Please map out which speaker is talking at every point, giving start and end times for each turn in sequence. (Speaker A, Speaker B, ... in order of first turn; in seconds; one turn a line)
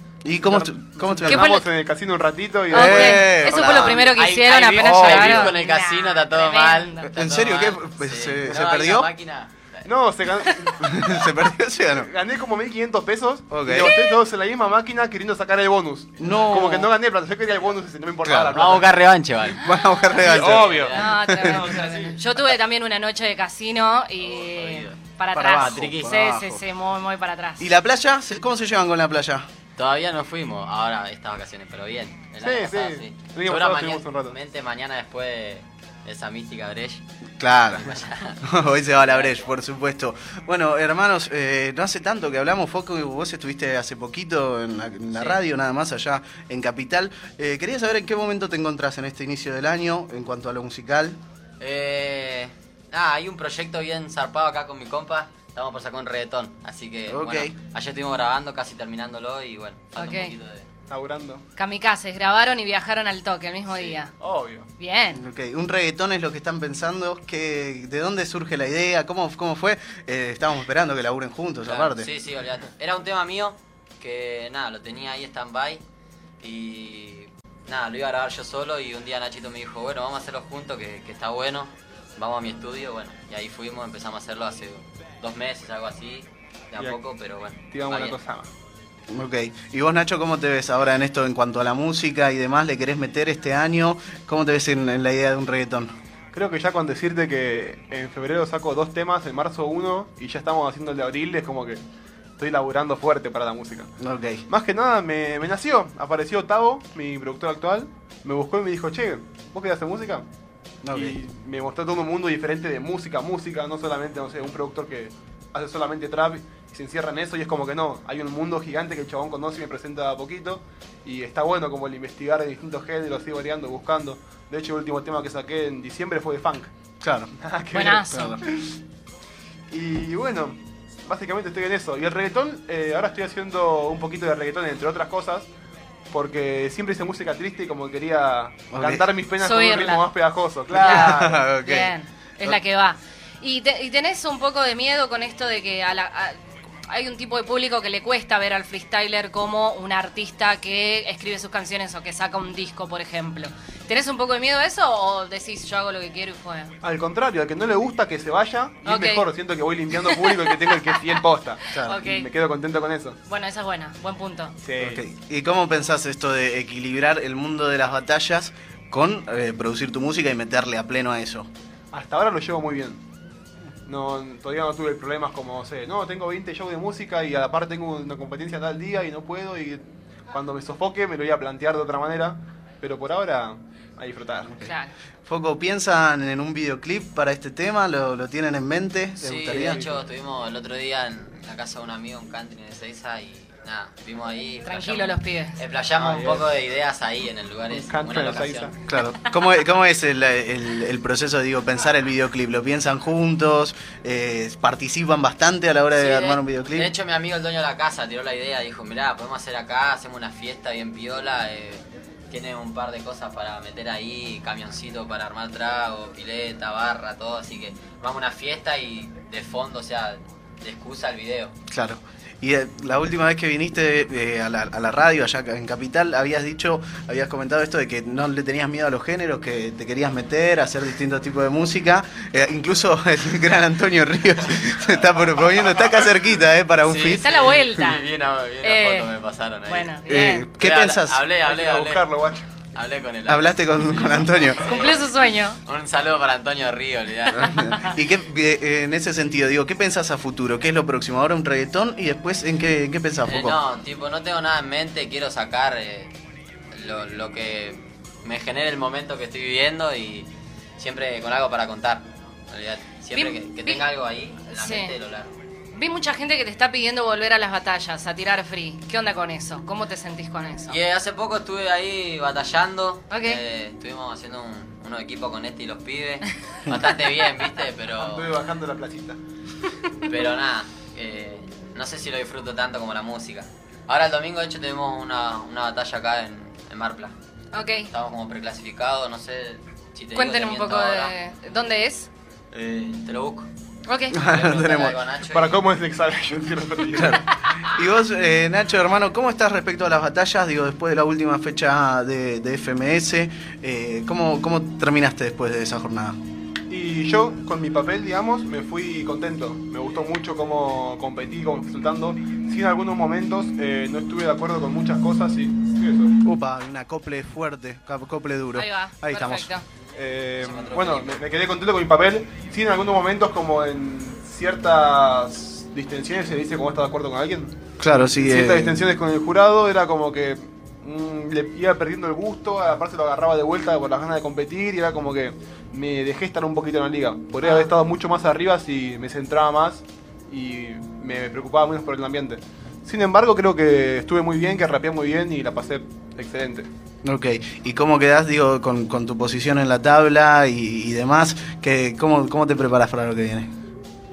Speaker A: 0.2-1.6
Speaker B: 0.4-3.6
Speaker C: 1.2-1.7
Speaker A: 2.7-4.1
Speaker C: 2.7-7.1
Speaker D: 3.6-9.9
Speaker B: 4.8-5.3
Speaker A: 7.0-9.1
Speaker B: 9.8-11.1
Speaker C: 10.5-10.7
Speaker A: 10.8-12.1
Speaker B: 11.9-18.9
Speaker A: 13.5-13.9
Speaker A: 16.2-16.9
Speaker A: 18.2-18.6
Speaker D: 18.5-19.6
Speaker A: 19.5-21.7
Speaker D: 20.1-21.4
Speaker B: 20.2-22.2
Speaker C: 20.9-27.7
Speaker D: 24.2-25.0
Speaker A: 25.3-26.6
Speaker D: 25.6-26.1
Speaker A: 27.6-29.5
Speaker D: 29.8-37.0
Speaker B: 32.4-34.4
Speaker A: 37.4-37.9
Speaker D: 37.7-39.5
Speaker A: 38.5-51.2
Speaker D: 45.1-45.4
Speaker D: 51.6-60.6
Speaker A: 57.1-57.5
Speaker C: 60.0-60.4
Speaker B: 60.9-61.5
Speaker C: 61.6-64.1
Speaker B: 64.2-64.7
Speaker C: 64.8-65.2
Speaker A: 65.1-72.1
Speaker D: 71.7-75.8
Speaker D: 76.4-88.2
Speaker B: 87.7-88.5
Speaker A: 89.1-96.0
Speaker B: 96.3-101.8
Speaker B: 102.4-103.9
Speaker A: 104.0-104.5
Speaker B: 104.5-110.2
Speaker A: 110.8-111.2
Speaker B: 110.9-126.7
Speaker A: 127.0-127.3
Speaker B: 127.4-128.8
Speaker C: 127.7-128.4
Speaker A: 128.1-128.4
Speaker B: 129.7-135.5
Speaker B: 136.1-141.3
Speaker A: 138.7-139.1
Speaker C: 139.4-140.1
Speaker A: 140.7-141.9
Speaker C: 140.8-146.4
Speaker C: 146.9-156.7
Speaker B: 156.8-163.2
Speaker C: 158.8-159.3
Speaker C: 159.9-161.0
Speaker C: 161.7-162.3
Speaker C: 163.3-164.6
Speaker B: 164.6-165.0
Speaker A: 164.8-171.5
Speaker B: 171.9-173.0
Speaker B: 173.8-184.5
Speaker C: 184.6-184.9
Speaker A: 185.3-189.9
Speaker D: 189.2-198.7
Speaker B: 189.5-189.9
Speaker C: 194.6-196.2
Speaker B: 195.9-196.5
Speaker B: 197.7-198.8
Speaker A: 198.9-206.9
Speaker D: 206.0-221.5
Speaker A: 221.7-237.3
Speaker D: 236.9-240.0
Speaker C: 237.1-238.0
Speaker C: 238.6-239.2
Speaker C: 239.7-240.5
Speaker A: 240.1-241.3
Speaker D: 240.6-242.1
Speaker B: 241.4-242.4
Speaker D: 242.8-245.1
Speaker A: 243.3-244.7
Speaker C: 244.5-245.6
Speaker D: 245.7-247.7
Speaker A: 247.3-253.6
Speaker C: 247.4-247.9
Speaker D: 253.2-256.1
Speaker D: 256.8-265.3
Speaker C: 263.1-263.9
Speaker C: 264.4-265.0
Speaker C: 265.7-270.8
Speaker D: 270.7-278.3
Speaker C: 273.1-273.4
Speaker B: 278.0-279.2
Speaker D: 280.0-287.1
Speaker C: 287.5-287.9
Speaker D: 287.9-291.1
Speaker C: 290.1-292.1
Speaker D: 292.5-293.5
Speaker C: 293.9-294.2
Speaker A: 294.1-295.0
Speaker D: 294.2-295.6
Speaker B: 295.3-297.2
Speaker A: 296.9-306.2
Speaker B: 306.7-316.1
Speaker A: 316.2-319.5
Speaker C: 318.5-319.6
Speaker B: 319.9-346.7
Speaker D: 320.4-321.2
Speaker A: 327.8-328.8
Speaker C: 337.4-337.7
Speaker A: 347.0-353.5